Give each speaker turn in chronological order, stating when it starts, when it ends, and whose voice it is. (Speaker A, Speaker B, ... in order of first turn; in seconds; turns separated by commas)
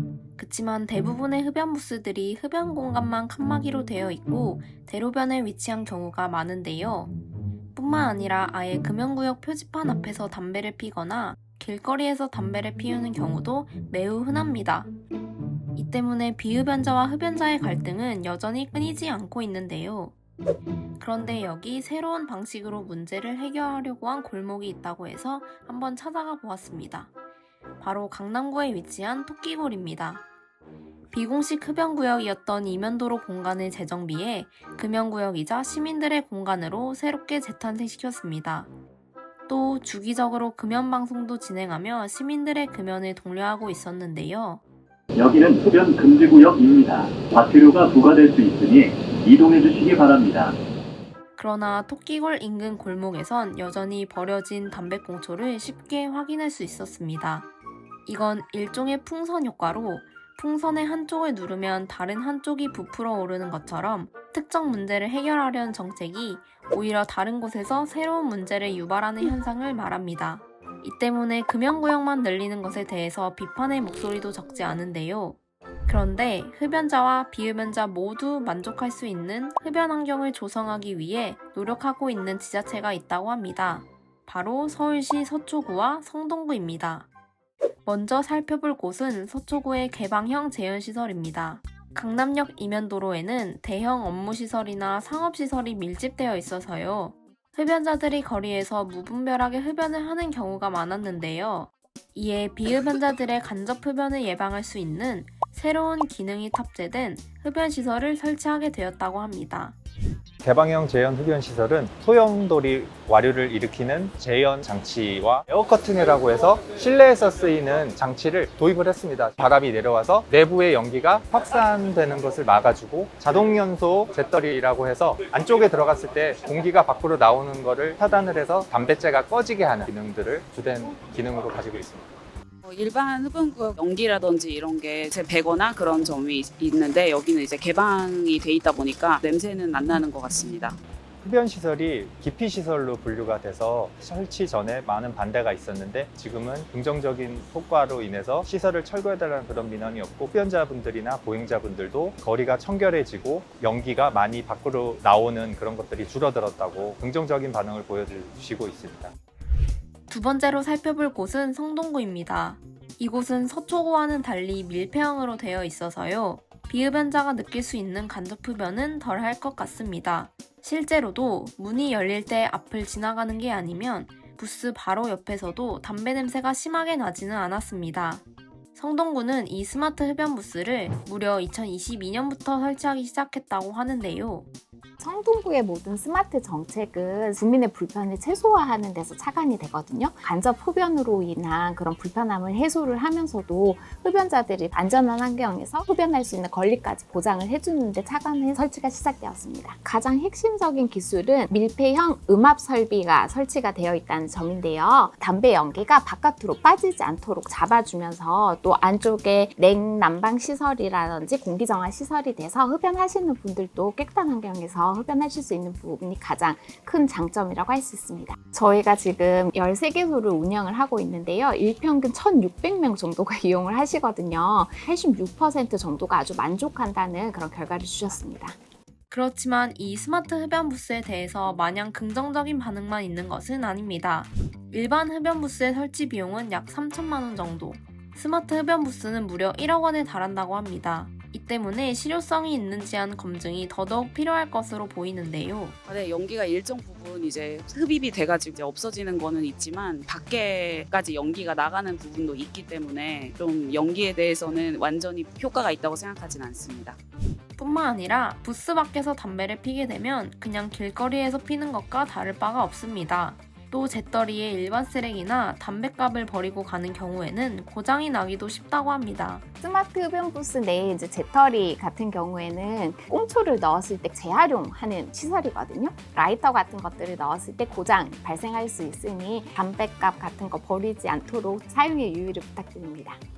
Speaker A: 0.4-7.1, Speaker A: 7.7-14.9, Speaker A: 15.7-20.1, Speaker A: 21.0-27.1, Speaker A: 27.8-30.2, Speaker A: 31.1-38.7, Speaker A: 39.5-44.6, Speaker B: 45.1-50.6, Speaker A: 51.4-57.5, Speaker A: 58.0-87.1, Speaker A: 87.8-109.8, Speaker C: 110.4-132.1, Speaker D: 132.6-140.8, Speaker C: 141.2-159.1, Speaker A: 160.1-178.2, Speaker A: 178.7-184.5, Speaker E: 185.0-228.6, Speaker A: 229.1-245.8, Speaker D: 245.8-257.0, Speaker A: 257.6-269.4, Speaker E: 269.6-283.2